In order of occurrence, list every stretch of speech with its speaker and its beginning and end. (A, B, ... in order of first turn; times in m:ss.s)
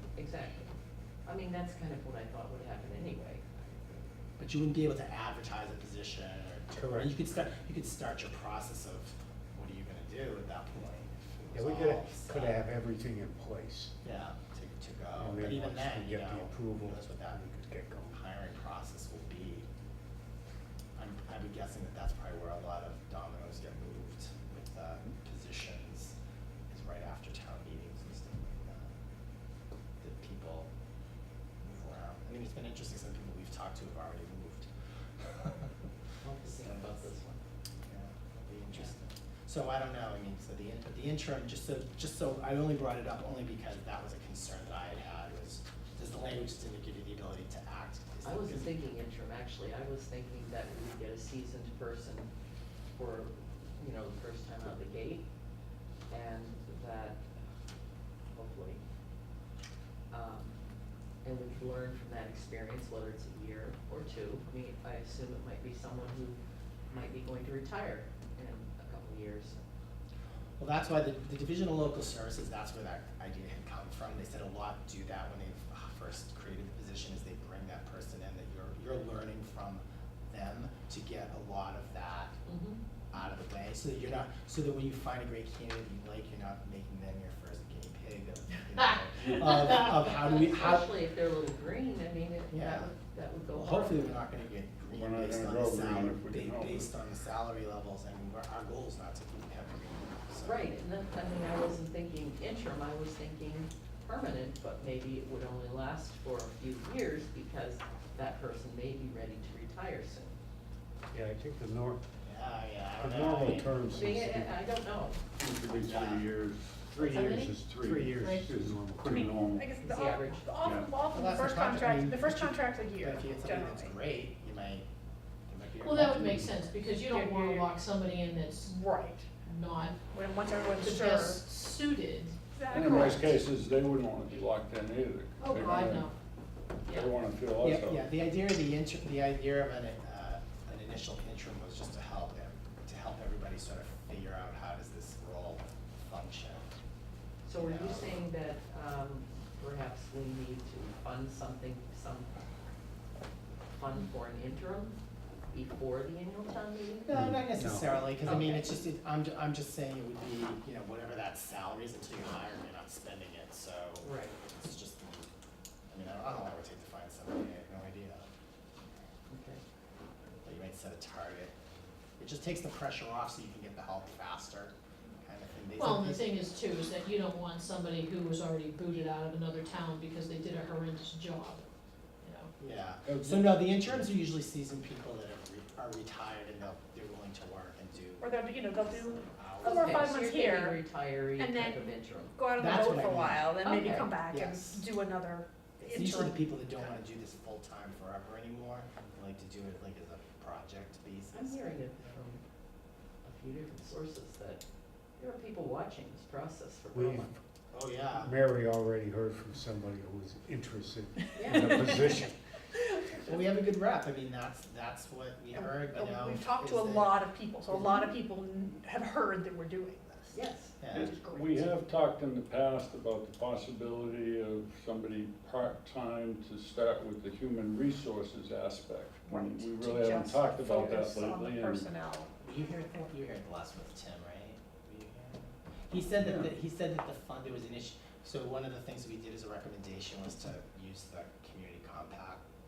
0:00.2-0:00.7 A
0:01.2-0:04.2 A
0:04.4-0:12.7 B
0:06.7-0:07.2 C
0:11.5-0:14.0 C
0:14.0-0:17.4 B
0:15.2-0:18.1 C
0:18.1-0:19.7 B
0:21.0-0:26.2 B
0:26.7-0:29.0 B
0:30.0-0:30.7 B
0:31.6-0:35.7 B
0:36.2-0:37.4 A
0:36.5-0:36.9 B
0:37.8-0:48.7 B
0:48.2-0:52.3 A
0:52.9-0:55.3 A
0:56.1-0:57.3 A
0:58.3-0:58.8 A
1:00.1-1:00.6 A
1:01.2-1:09.6 A
1:10.6-1:22.4 B
1:22.4-1:22.8 A
1:23.1-1:30.9 B
1:30.0-1:34.2 A
1:32.5-1:32.9 B
1:33.5-1:40.6 B
1:34.9-1:36.9 D
1:40.4-1:50.4 A
1:51.1-1:52.0 C
1:52.2-1:53.8 B
1:53.0-1:54.5 C
1:53.9-1:56.0 A
1:55.4-1:58.2 D
1:55.7-1:56.2 B
1:57.0-1:59.5 C
1:57.0-1:57.6 E
1:58.2-1:58.7 E
1:59.0-2:04.0 F
1:59.1-1:59.7 D
1:59.8-2:00.5 A
2:00.6-2:00.9 D
2:01.1-2:04.9 B
2:05.5-2:06.8 B
2:05.8-2:08.8 E
2:07.0-2:07.8 F
2:08.7-2:09.4 F
2:09.4-2:10.1 E
2:10.0-2:11.4 F
2:10.8-2:12.4 E
2:12.5-2:13.3 F
2:12.7-2:16.1 D
2:15.4-2:16.2 E
2:16.9-2:18.0 D
2:17.6-2:26.7 B
2:27.4-2:32.3 A
2:27.6-2:28.1 B
2:33.7-2:35.0 A
2:35.5-2:37.1 A
2:37.0-2:45.3 B
2:37.1-2:38.0 C
2:38.2-2:38.6 A
2:44.0-2:44.4 A
2:45.9-2:48.3 B
2:49.3-2:49.6 A
2:50.4-2:51.5 B
2:52.2-2:56.3 B
2:55.8-3:01.7 E
3:02.2-3:02.5 E
3:02.6-3:10.2 B
3:03.0-3:04.1 D
3:08.2-3:10.8 F
3:09.6-3:12.4 A
3:11.4-3:16.5 F
3:12.6-3:13.6 B
3:13.6-3:14.2 A
3:14.3-3:14.9 B
3:15.8-3:21.6 B
3:21.3-3:22.4 A
3:23.2-3:24.6 A
3:25.2-3:27.4 A
3:26.9-3:27.3 C
3:27.7-3:28.3 B
3:28.2-3:32.4 C
3:31.4-3:32.1 A
3:33.2-3:38.1 B
3:35.5-3:40.4 F
3:40.3-3:40.8 A
3:40.8-3:41.1 B
3:40.9-3:41.7 F
3:40.9-3:51.9 D
3:49.2-3:52.3 F
3:52.4-4:02.4 B
3:56.2-3:56.5 D